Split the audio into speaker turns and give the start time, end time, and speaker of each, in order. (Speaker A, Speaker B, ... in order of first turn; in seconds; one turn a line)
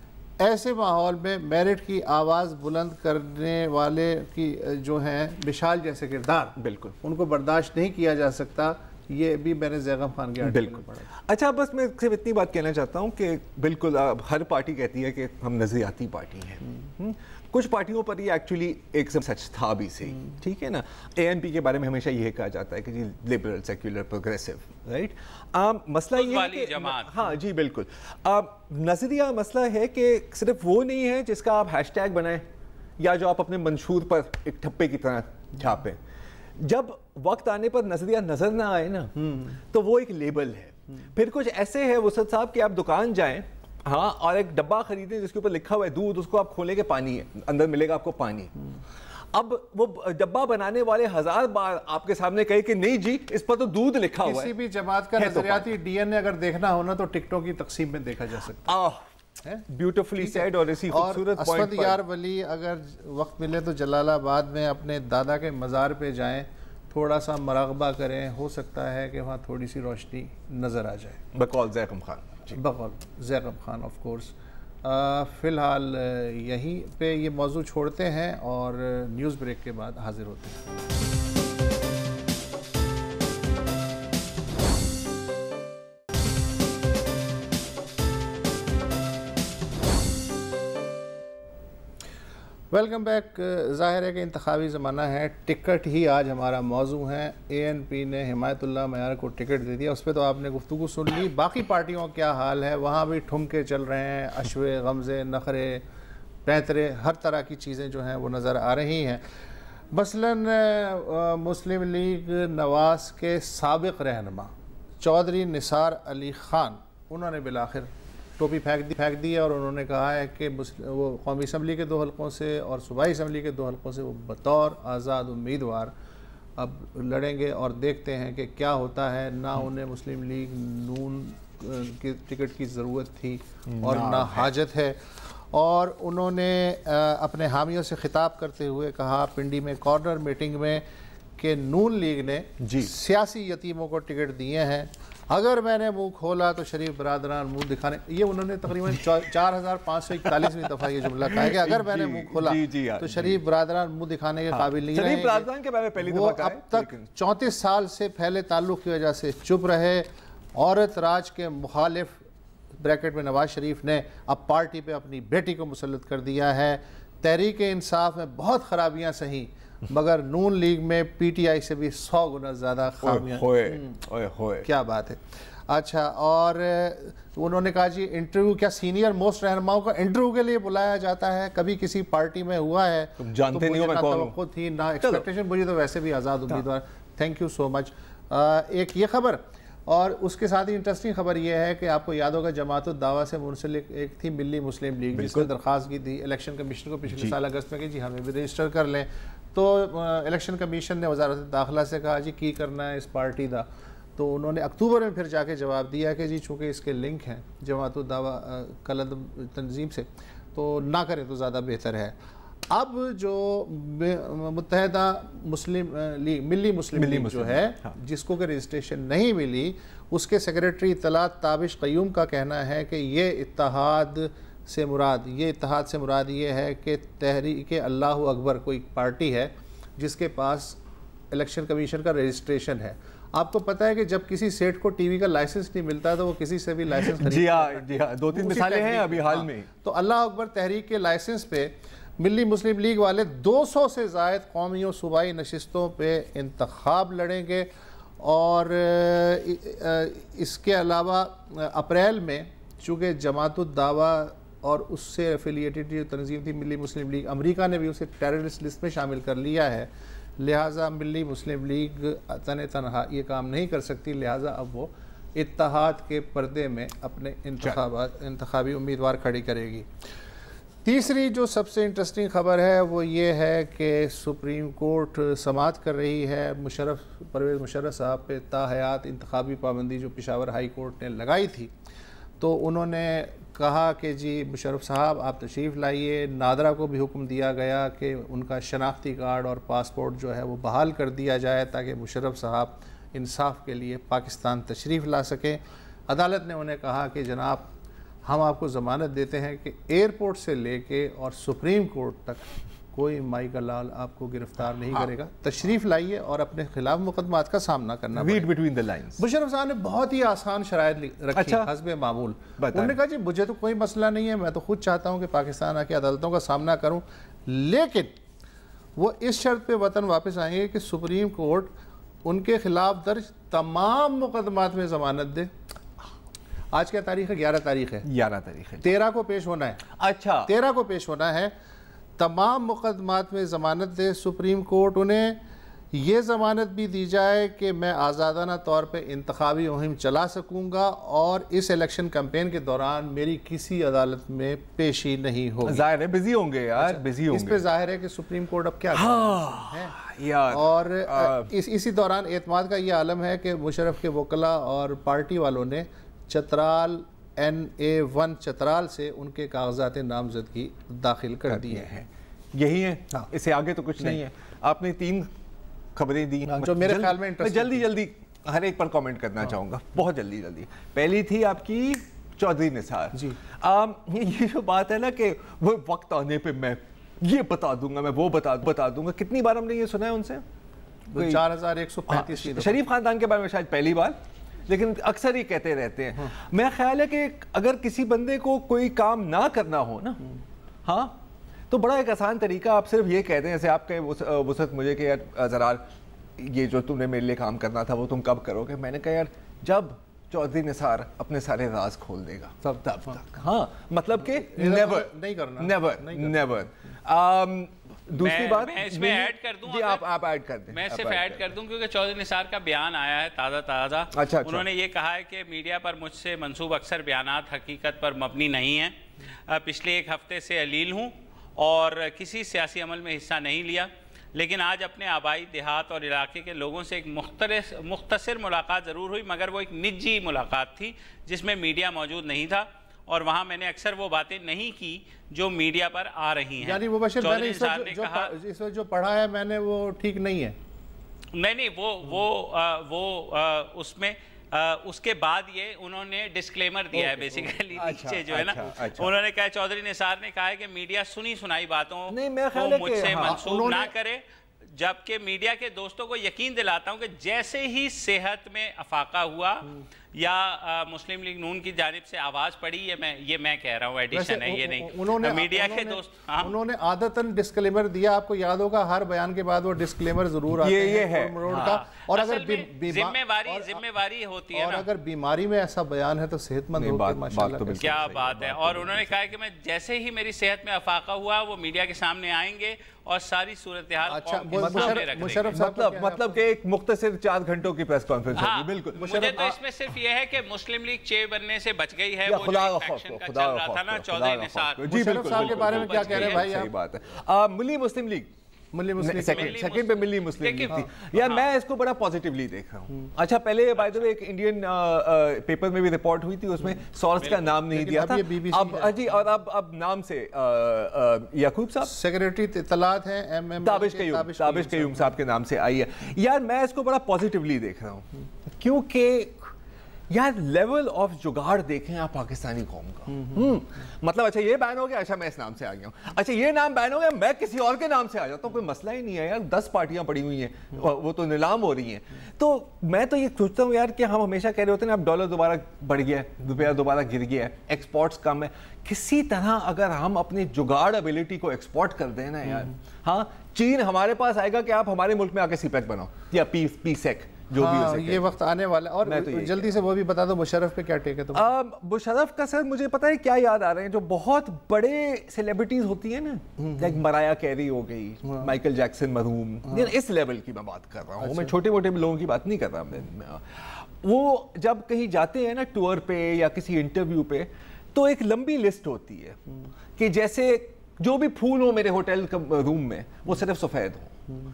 Speaker A: 0.4-11.1
Speaker B: 6.6-6.9
Speaker B: 10.4-32.5
Speaker C: 26.1-27.2
Speaker B: 33.0-36.0
Speaker B: 36.5-48.5
Speaker A: 39.2-39.5
Speaker B: 49.3-54.5
Speaker A: 54.2-58.7
Speaker B: 55.2-55.7
Speaker B: 58.6-59.1
Speaker B: 59.7-62.0
Speaker A: 60.2-71.2
Speaker B: 71.3-72.6
Speaker A: 72.5-80.6
Speaker A: 92.7-105.8
Speaker A: 106.5-109.2
Speaker A: 109.9-125.9
Speaker A: 126.6-135.0
Speaker B: 133.7-134.5
Speaker A: 135.5-140.8
Speaker A: 141.4-155.5
Speaker B: 142.6-142.9
Speaker B: 148.9-149.3
Speaker B: 150.2-153.4
Speaker B: 154.5-157.1
Speaker A: 156.0-162.2
Speaker A: 162.8-174.0
Speaker B: 173.0-174.7
Speaker A: 174.6-212.2
Speaker B: 183.2-184.3
Speaker B: 185.0-185.2
Speaker B: 195.1-195.5
Speaker B: 197.1-197.3
Speaker A: 212.7-230.8
Speaker B: 216.9-217.9
Speaker A: 231.3-269.9
Speaker B: 237.1-239.7
Speaker A: 270.8-281.7
Speaker A: 282.4-297.7
Speaker A: 298.2-308.5
Speaker B: 308.1-309.2
Speaker A: 309.2-318.1
Speaker B: 311.3-311.7
Speaker B: 312.6-313.0
Speaker A: 318.9-321.7
Speaker A: 322.2-325.5
Speaker A: 326.7-328.1
Speaker B: 328.0-328.9
Speaker A: 328.8-329.9
Speaker B: 330.0-330.5
Speaker A: 330.4-331.5
Speaker A: 332.2-345.8
Speaker B: 345.6-347.6
Speaker A: 346.8-362.0
Speaker B: 348.9-351.5
Speaker B: 361.5-365.3
Speaker B: 365.9-380.4
Speaker A: 366.6-367.9
Speaker A: 381.1-382.8
Speaker B: 381.1-381.4
Speaker B: 382.1-390.2
Speaker B: 390.8-395.8
Speaker B: 396.4-411.4
Speaker A: 404.3-406.4
Speaker C: 408.2-410.0
Speaker C: 410.7-418.9
Speaker B: 414.1-414.6
Speaker C: 419.5-438.3
Speaker A: 436.6-440.6
Speaker C: 441.3-454.2
Speaker B: 447.0-449.1
Speaker B: 452.1-453.4
Speaker A: 453.2-453.9
Speaker C: 454.8-466.5
Speaker A: 464.1-473.8
Speaker B: 470.6-471.8
Speaker C: 471.5-474.9
Speaker A: 474.5-478.0
Speaker B: 476.8-479.2
Speaker C: 477.8-485.6
Speaker A: 484.1-486.3
Speaker B: 484.5-489.5
Speaker C: 488.4-496.5
Speaker A: 489.1-489.5
Speaker B: 492.2-498.3
Speaker A: 494.8-496.7
Speaker A: 498.7-499.6
Speaker B: 499.0-511.9
Speaker C: 499.3-501.4
Speaker C: 503.8-504.1
Speaker A: 507.5-508.9
Speaker A: 511.8-515.1
Speaker B: 513.6-519.5
Speaker B: 520.1-548.3
Speaker A: 547.5-551.5
Speaker B: 549.0-549.7
Speaker B: 551.3-569.4
Speaker A: 556.6-556.9
Speaker A: 561.2-561.5
Speaker B: 570.0-574.2